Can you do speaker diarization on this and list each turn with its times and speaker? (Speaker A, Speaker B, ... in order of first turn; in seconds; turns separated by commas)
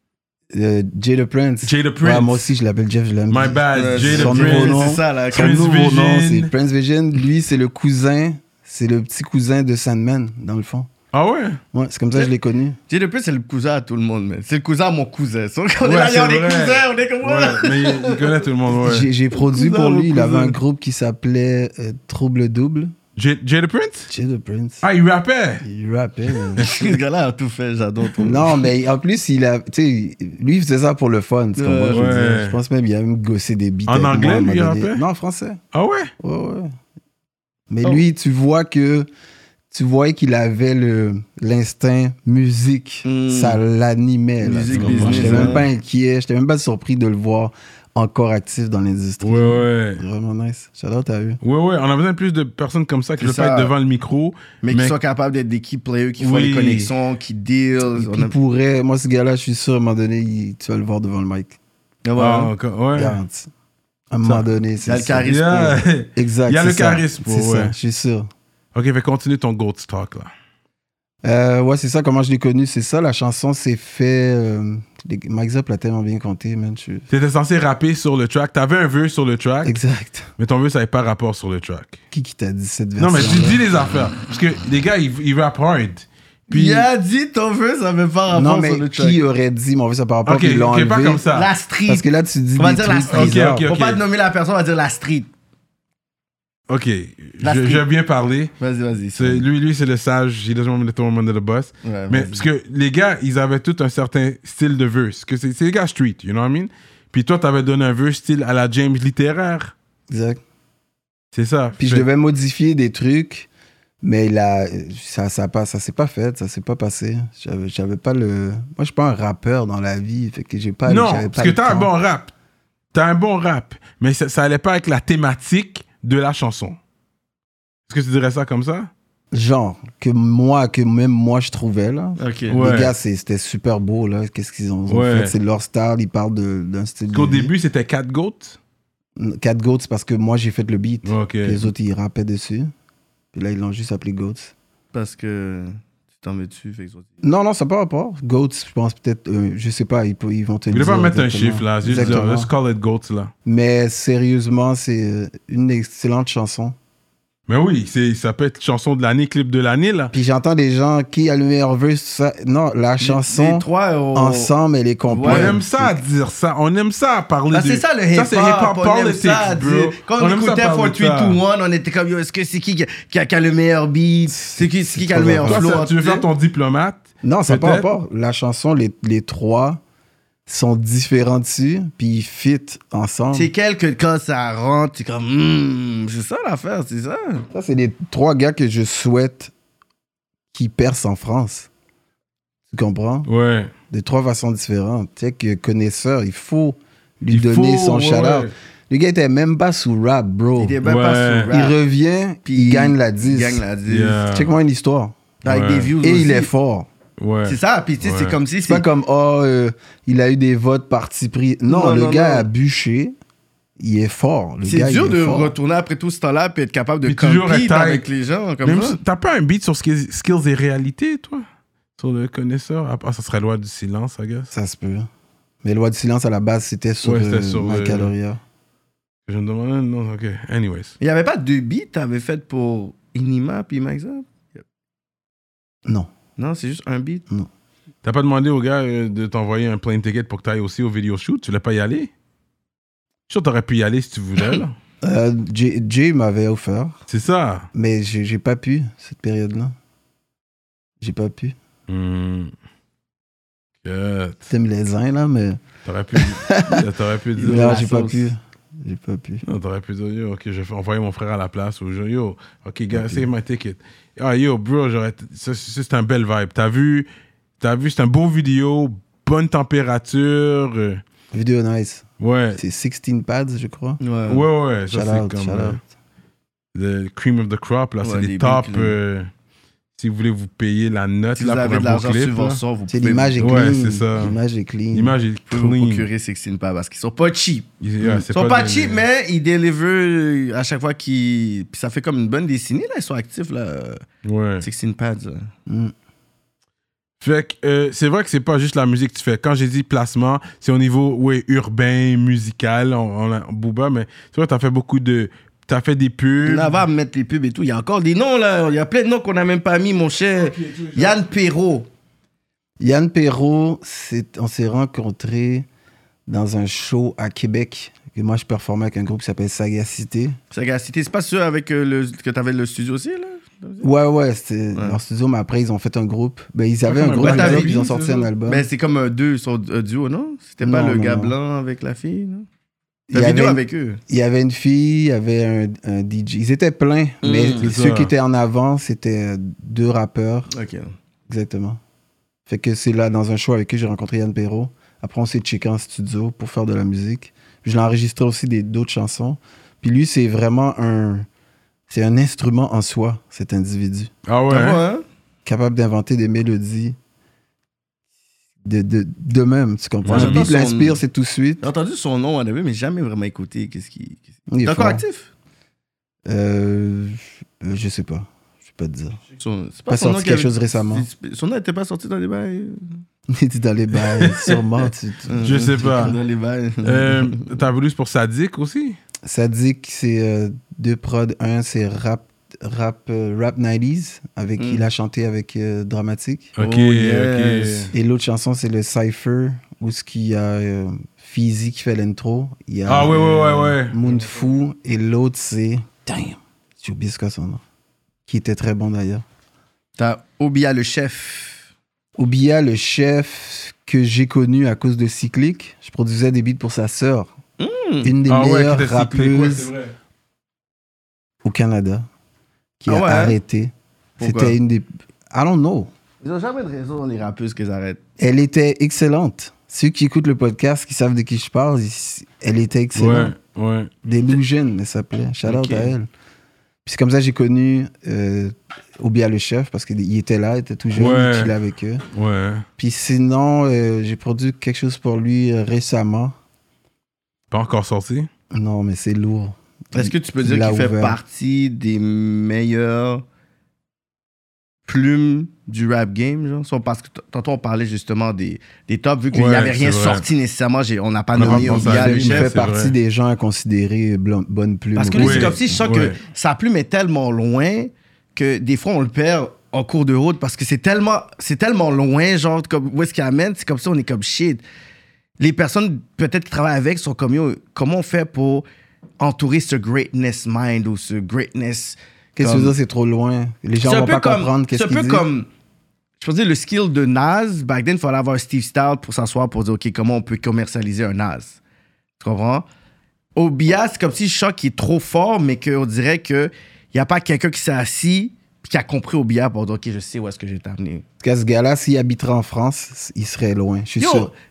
Speaker A: 0.5-10.9, Speaker B: 1.6-2.5, Speaker B: 3.3-6.5, Speaker C: 3.7-5.6, Speaker B: 11.1-11.6, Speaker A: 11.7-12.8, Speaker C: 12.9-18.4, Speaker B: 15.8-19.1, Speaker A: 18.7-22.9, Speaker C: 19.3-20.6, Speaker B: 23.2-24.1, Speaker A: 24.1-24.8, Speaker B: 24.8-25.6, Speaker A: 25.6-26.7, Speaker B: 26.6-26.9, Speaker C: 26.6-28.6, Speaker A: 28.2-35.6, Speaker C: 31.6-32.1, Speaker B: 31.9-32.6, Speaker B: 33.9-35.0, Speaker B: 35.7-36.1, Speaker A: 36.2-36.7, Speaker A: 37.7-39.1, Speaker A: 39.7-51.4, Speaker C: 43.0-43.6, Speaker C: 44.4-45.7, Speaker B: 44.7-45.6, Speaker B: 49.2-50.0, Speaker B: 51.4-55.0, Speaker C: 53.2-53.7, Speaker C: 54.6-58.3, Speaker B: 56.2-56.9, Speaker A: 58.0-61.6, Speaker C: 62.0-62.5, Speaker B: 62.2-63.2, Speaker A: 63.0-63.5, Speaker A: 64.1-65.3, Speaker C: 64.8-65.8, Speaker B: 65.2-67.7, Speaker A: 66.1-68.3, Speaker B: 68.7-70.3, Speaker A: 71.2-77.1, Speaker B: 77.1-79.7, Speaker A: 79.6-80.3, Speaker B: 80.4-82.0, Speaker A: 82.1-83.6, Speaker B: 83.0-86.9, Speaker C: 86.5-89.2, Speaker A: 88.3-91.2, Speaker B: 90.2-91.5, Speaker C: 91.3-92.0, Speaker A: 91.9-93.7, Speaker C: 92.6-95.3, Speaker B: 93.1-94.0, Speaker B: 96.7-98.5, Speaker C: 97.4-97.8, Speaker C: 98.6-99.5, Speaker B: 99.1-109.7, Speaker C: 101.8-102.5, Speaker A: 110.1-110.4, Speaker B: 111.3-112.0, Speaker A: 111.8-113.5, Speaker A: 114.0-121.9, Speaker B: 120.9-122.3, Speaker B: 122.9-126.8, Speaker B: 127.9-128.9, Speaker A: 129.3-137.5, Speaker C: 132.2-132.6, Speaker B: 132.5-132.9, Speaker B: 134.9-135.3, Speaker B: 137.1-138.6, Speaker A: 139.2-142.7, Speaker B: 141.1-141.7, Speaker A: 143.3-144.5, Speaker C: 144.9-147.1, Speaker A: 147.2-152.5, Speaker B: 150.7-153.3, Speaker A: 153.4-156.8, Speaker B: 157.5-160.1, Speaker A: 160.1-165.9, Speaker C: 163.0-164.5, Speaker C: 165.1-165.6, Speaker B: 165.2-171.4, Speaker C: 167.5-176.2, Speaker A: 174.3-175.7, Speaker B: 175.5-177.9, Speaker A: 177.2-179.8, Speaker A: 180.5-183.5, Speaker C: 183.3-187.4, Speaker A: 187.5-189.5, Speaker A: 190.5-191.7, Speaker A: 192.7-193.3, Speaker B: 193.3-193.7, Speaker A: 193.9-200.8, Speaker B: 197.3-198.5, Speaker C: 200.6-201.8, Speaker B: 200.8-201.5, Speaker A: 201.5-203.6, Speaker C: 202.4-204.2, Speaker B: 203.9-204.5, Speaker A: 204.3-205.3, Speaker C: 205.4-206.5, Speaker B: 205.4-205.9, Speaker A: 206.0-206.9, Speaker B: 207.2-208.4, Speaker C: 207.4-208.8, Speaker A: 208.6-213.2, Speaker C: 211.7-212.5, Speaker A: 213.8-215.6, Speaker C: 214.6-219.0, Speaker B: 217.1-218.1, Speaker B: 218.6-221.4, Speaker B: 222.0-224.5, Speaker A: 224.5-225.1, Speaker A: 225.6-228.4, Speaker B: 227.0-228.1, Speaker B: 229.3-230.9, Speaker C: 231.0-234.6, Speaker C: 236.4-237.2, Speaker B: 238.0-242.1, Speaker B: 243.3-244.7, Speaker A: 245.0-247.0, Speaker B: 247.1-247.7, Speaker A: 247.7-249.7, Speaker A: 251.0-251.6, Speaker B: 251.9-252.5, Speaker B: 253.8-254.5, Speaker A: 254.5-255.6, Speaker B: 255.8-257.8, Speaker A: 256.1-256.9, Speaker C: 257.4-258.3, Speaker A: 257.4-259.4, Speaker B: 259.4-267.1, Speaker A: 262.9-263.3, Speaker B: 267.6-271.0, Speaker A: 271.3-274.0, Speaker B: 272.2-272.6, Speaker C: 274.0-274.4, Speaker B: 274.3-275.8, Speaker A: 274.9-275.8, Speaker B: 276.7-279.3, Speaker C: 278.0-278.9, Speaker B: 279.9-282.6, Speaker C: 281.4-283.6, Speaker A: 282.9-285.2, Speaker B: 283.4-284.4, Speaker B: 284.9-286.1, Speaker C: 285.5-294.0, Speaker B: 287.8-289.0, Speaker B: 294.2-294.6, Speaker C: 294.6-295.5, Speaker A: 295.7-295.9, Speaker B: 297.2-306.8, Speaker C: 306.4-311.9, Speaker B: 310.4-311.2, Speaker A: 312.8-315.7, Speaker A: 316.3-320.4, Speaker C: 320.5-323.9, Speaker A: 323.8-328.7, Speaker B: 326.8-328.3, Speaker C: 327.2-327.7, Speaker C: 328.4-332.4, Speaker A: 330.6-331.4, Speaker A: 333.1-340.5, Speaker C: 333.1-334.0, Speaker C: 337.2-337.7, Speaker B: 337.6-338.1, Speaker C: 340.5-340.9, Speaker A: 341.3-341.8, Speaker A: 342.5-351.3, Speaker A: 351.9-354.1, Speaker B: 354.3-354.8, Speaker C: 354.5-355.0, Speaker A: 355.4-357.0, Speaker A: 358.6-361.6, Speaker B: 360.0-360.4, Speaker C: 360.1-361.0, Speaker C: 361.6-365.3, Speaker A: 364.5-365.0, Speaker A: 366.3-369.2, Speaker C: 369.4-373.0, Speaker A: 369.9-371.1, Speaker A: 373.3-376.1, Speaker B: 374.1-374.6, Speaker C: 375.3-377.6, Speaker B: 375.4-376.1, Speaker B: 376.8-379.0, Speaker A: 379.3-386.6, Speaker C: 384.6-384.8, Speaker B: 386.6-387.9, Speaker C: 386.6-387.9, Speaker A: 387.9-397.6, Speaker B: 392.9-393.9, Speaker A: 398.3-399.2, Speaker C: 400.0-401.6, Speaker A: 402.2-407.3, Speaker C: 407.6-408.1, Speaker A: 408.0-409.7, Speaker B: 408.3-409.9, Speaker A: 411.4-412.1, Speaker A: 412.8-415.9, Speaker C: 412.9-413.4, Speaker C: 414.2-414.6, Speaker C: 416.2-418.0, Speaker A: 418.2-423.3, Speaker B: 422.9-423.9, Speaker A: 424.0-426.1, Speaker C: 425.4-425.9, Speaker A: 426.9-432.0, Speaker B: 430.9-431.5, Speaker B: 432.1-432.6, Speaker A: 432.8-436.4, Speaker B: 437.5-438.3, Speaker A: 438.5-441.2, Speaker C: 439.9-443.2, Speaker C: 444.9-452.6, Speaker B: 449.3-450.2, Speaker B: 451.4-452.9, Speaker A: 451.4-455.9, Speaker C: 454.9-464.6, Speaker B: 455.1-456.2, Speaker C: 465.4-468.6, Speaker C: 469.2-472.7, Speaker A: 472.4-475.2, Speaker C: 473.8-475.4, Speaker C: 476.2-481.6, Speaker C: 482.2-482.6, Speaker C: 483.4-491.0, Speaker A: 491.2-494.3, Speaker C: 494.0-494.3